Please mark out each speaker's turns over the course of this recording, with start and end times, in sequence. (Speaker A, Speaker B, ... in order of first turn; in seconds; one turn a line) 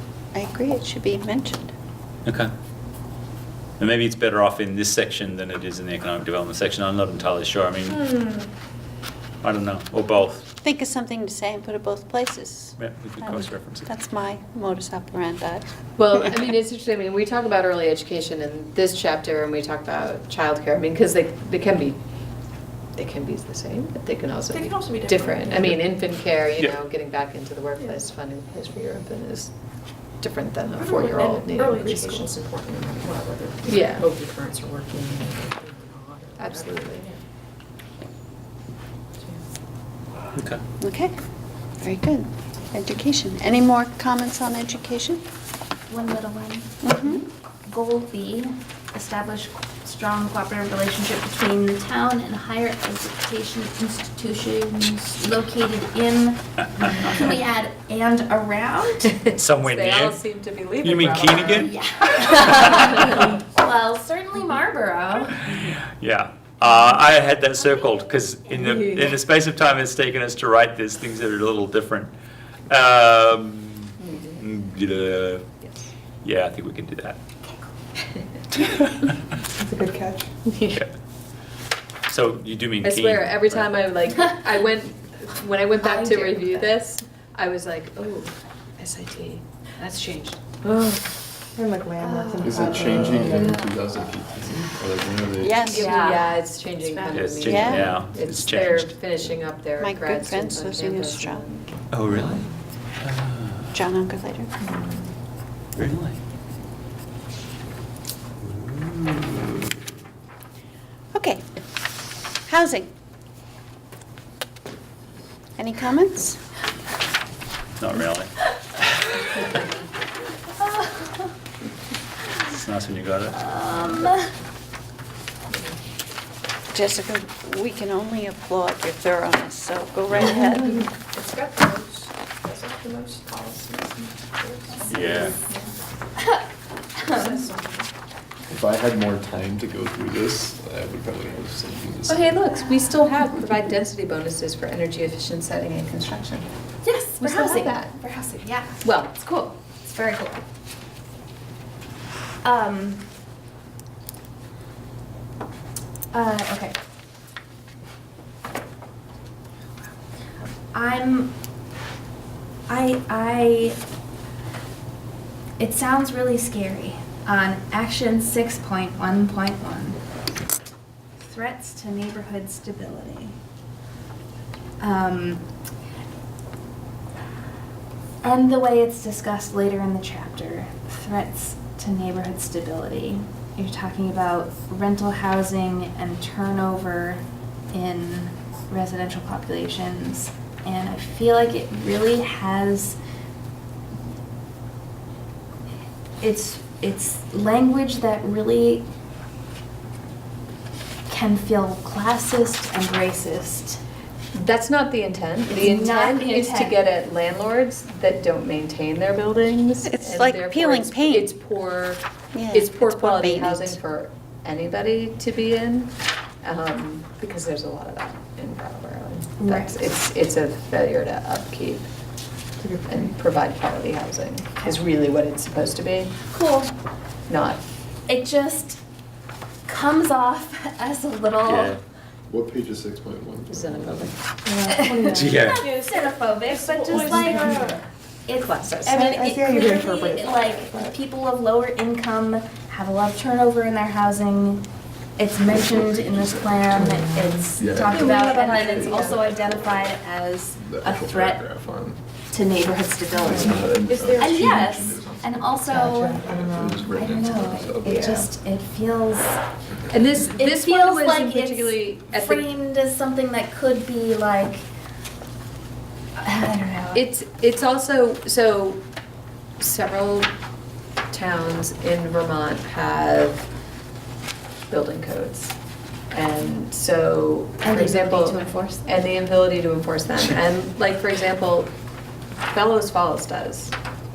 Speaker A: 0.3-1.8
Speaker B: 2.2-2.5
Speaker B: 3.8-8.0
Speaker C: 7.9-8.5
Speaker B: 9.4-10.5
Speaker A: 10.6-15.7
Speaker B: 12.8-13.9
Speaker C: 16.0-22.0
Speaker C: 23.0-29.5
Speaker D: 24.5-25.8
Speaker C: 30.2-32.4
Speaker D: 30.8-36.9
Speaker C: 33.6-35.4
Speaker C: 36.4-37.2
Speaker B: 40.4-40.6
Speaker A: 40.8-41.1
Speaker A: 41.8-45.2
Speaker E: 45.9-46.9
Speaker A: 46.8-47.3
Speaker E: 47.7-59.2
Speaker C: 59.1-61.7
Speaker B: 59.3-60.2
Speaker B: 60.8-61.7
Speaker E: 61.5-65.6
Speaker C: 62.4-63.3
Speaker B: 65.5-72.1
Speaker B: 72.7-75.5
Speaker C: 74.0-74.4
Speaker C: 75.6-75.9
Speaker B: 76.2-77.2
Speaker B: 78.6-79.1
Speaker F: 79.6-80.3
Speaker C: 80.5-80.8
Speaker B: 82.1-83.8
Speaker C: 82.8-91.0
Speaker E: 85.8-86.7
Speaker F: 91.5-93.5
Speaker E: 92.0-93.3
Speaker G: 92.4-95.7
Speaker A: 95.4-96.2
Speaker E: 95.7-96.4
Speaker C: 95.7-101.7
Speaker A: 96.8-98.0
Speaker B: 97.1-99.0
Speaker A: 99.8-101.4
Speaker B: 101.9-102.5
Speaker B: 103.0-103.7
Speaker A: 103.7-104.5
Speaker C: 104.6-105.1
Speaker B: 105.8-106.2
Speaker B: 108.5-109.7
Speaker A: 111.1-111.5
Speaker A: 112.5-112.9
Speaker A: 115.6-116.4
Speaker B: 117.8-118.3
Speaker C: 119.4-119.7
Speaker E: 120.6-121.3
Speaker B: 122.5-123.4
Speaker E: 123.3-124.3
Speaker A: 126.7-130.8
Speaker C: 131.2-131.9
Speaker D: 131.3-131.7
Speaker C: 132.5-133.6
Speaker D: 132.5-135.3
Speaker C: 134.5-134.8
Speaker B: 134.9-135.4
Speaker E: 136.2-136.4
Speaker E: 137.0-137.4
Speaker D: 137.2-137.9
Speaker G: 138.5-142.3
Speaker C: 142.1-146.5
Speaker E: 146.8-150.4
Speaker C: 147.2-147.9
Speaker C: 148.8-149.1
Speaker E: 152.4-153.1
Speaker E: 156.1-156.8
Speaker E: 160.7-161.3
Speaker E: 162.7-163.8
Speaker E: 165.6-170.0
Speaker E: 171.2-173.4
Speaker E: 174.8-175.5
Speaker E: 178.2-193.0
Speaker E: 196.2-198.9
Speaker E: 201.1-203.8
Speaker C: 204.3-221.9
Speaker E: 205.5-206.8
Speaker A: 209.8-211.3
Speaker A: 212.3-213.8
Speaker E: 219.4-219.9
Speaker F: 222.6-222.9
Speaker C: 222.9-226.1
Speaker E: 226.3-226.7
Speaker C: 227.3-227.6
Speaker E: 228.1-228.8
Speaker E: 229.7-231.8
Speaker B: 231.4-231.8
Speaker G: 232.3-234.1
Speaker C: 233.5-234.2
Speaker F: 234.5-235.2
Speaker E: 234.7-237.7
Speaker B: 235.1-235.7
Speaker D: 235.5-237.8
Speaker C: 236.9-237.3
Speaker F: 237.1-237.8
Speaker E: 238.3-244.7
Speaker C: 238.3-239.1
Speaker F: 238.9-241.0
Speaker E: 245.2-251.4
Speaker G: 245.5-249.8
Speaker F: 246.8-247.4
Speaker C: 247.9-249.2
Speaker D: 248.5-248.9
Speaker G: 250.6-252.0
Speaker E: 252.3-256.4
Speaker G: 253.1-258.3
Speaker C: 253.9-254.3
Speaker F: 255.7-256.9
Speaker E: 256.9-259.4
Speaker C: 259.9-262.5
Speaker E: 260.2-264.6
Speaker E: 266.2-267.1
Speaker C: 266.9-268.8
Speaker C: 269.6-270.3
Speaker C: 271.1-273.5
Speaker C: 274.7-275.6
Speaker C: 276.1-281.7
Speaker E: 277.6-279.0
Speaker C: 282.5-283.8